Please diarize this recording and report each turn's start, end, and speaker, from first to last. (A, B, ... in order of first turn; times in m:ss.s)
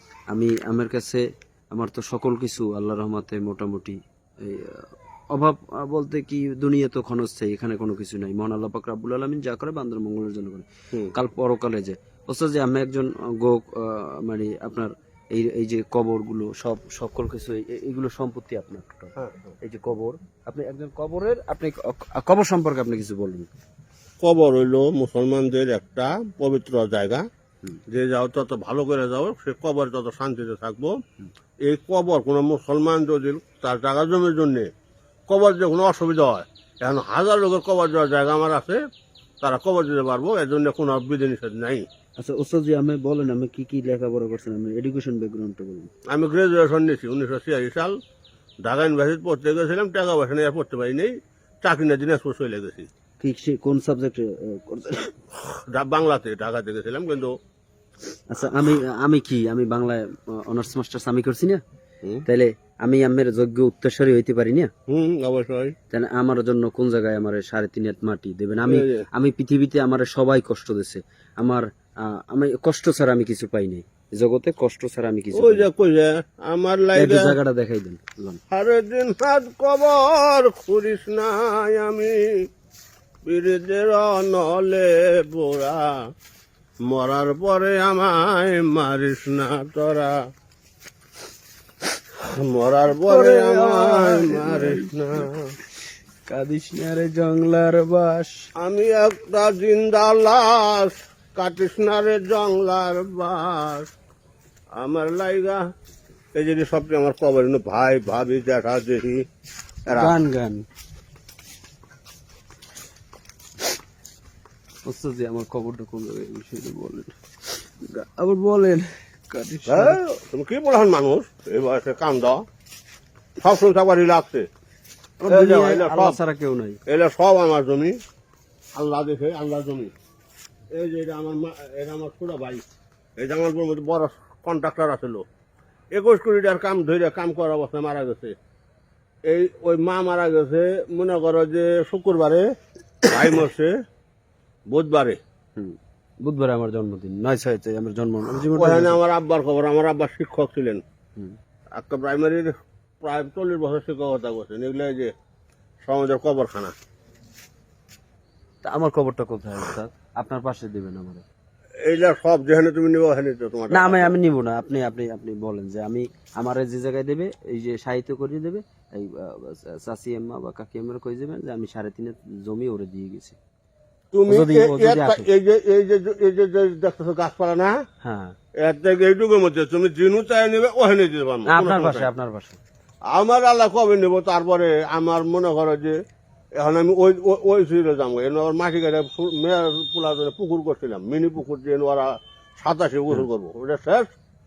0:00.3-0:01.2 A
0:01.7-0:23.5 A
0:19.2-0:19.5 B
0:24.2-0:27.2 B
0:27.9-0:31.0 B
0:31.6-0:34.7 B
0:35.3-0:38.8 B
0:39.4-0:41.8 B
0:42.2-0:45.9 A
0:46.1-0:48.0 B
0:48.6-0:52.9 B
0:53.2-0:55.2 A
0:55.7-0:57.4 B
0:58.3-1:01.6 A
1:02.3-1:04.7 A
1:04.9-1:05.8 B
1:05.9-1:15.7 A
1:08.7-1:09.1 B
1:15.3-1:17.4 B
1:16.9-1:18.4 A
1:18.5-1:22.5 B
1:23.2-1:26.0 B
1:26.9-1:30.2 B
1:32.3-1:35.5 B
1:33.0-1:35.2 A
1:36.3-1:38.4 A
1:38.6-1:43.9 B
1:44.8-1:45.6 B
1:46.4-1:49.2 B
1:49.9-1:50.2 B
1:49.9-1:50.6 A
1:54.8-2:00.0 A
1:59.7-2:02.4 B
2:03.4-2:04.5 B
2:05.2-2:06.8 A
2:05.3-2:06.2 B
2:06.9-2:08.0 B
2:08.8-2:09.9 B
2:10.7-2:12.6 B
2:13.2-2:15.2 B
2:15.9-2:18.4 B
2:19.3-2:22.5 B
2:23.1-2:23.8 B
2:24.7-2:25.2 B
2:25.6-2:29.0 A
2:28.5-2:30.8 B
2:31.7-2:35.1 B
2:35.8-2:36.7 B
2:38.6-2:41.2 A
2:41.9-2:44.2 B
2:43.7-2:53.4 A
2:54.1-2:57.8 B
2:54.3-2:55.3 A
2:58.0-2:58.4 A
2:58.6-3:02.1 B
3:01.5-3:02.6 A
3:03.1-3:06.0 B
3:06.6-3:14.1 B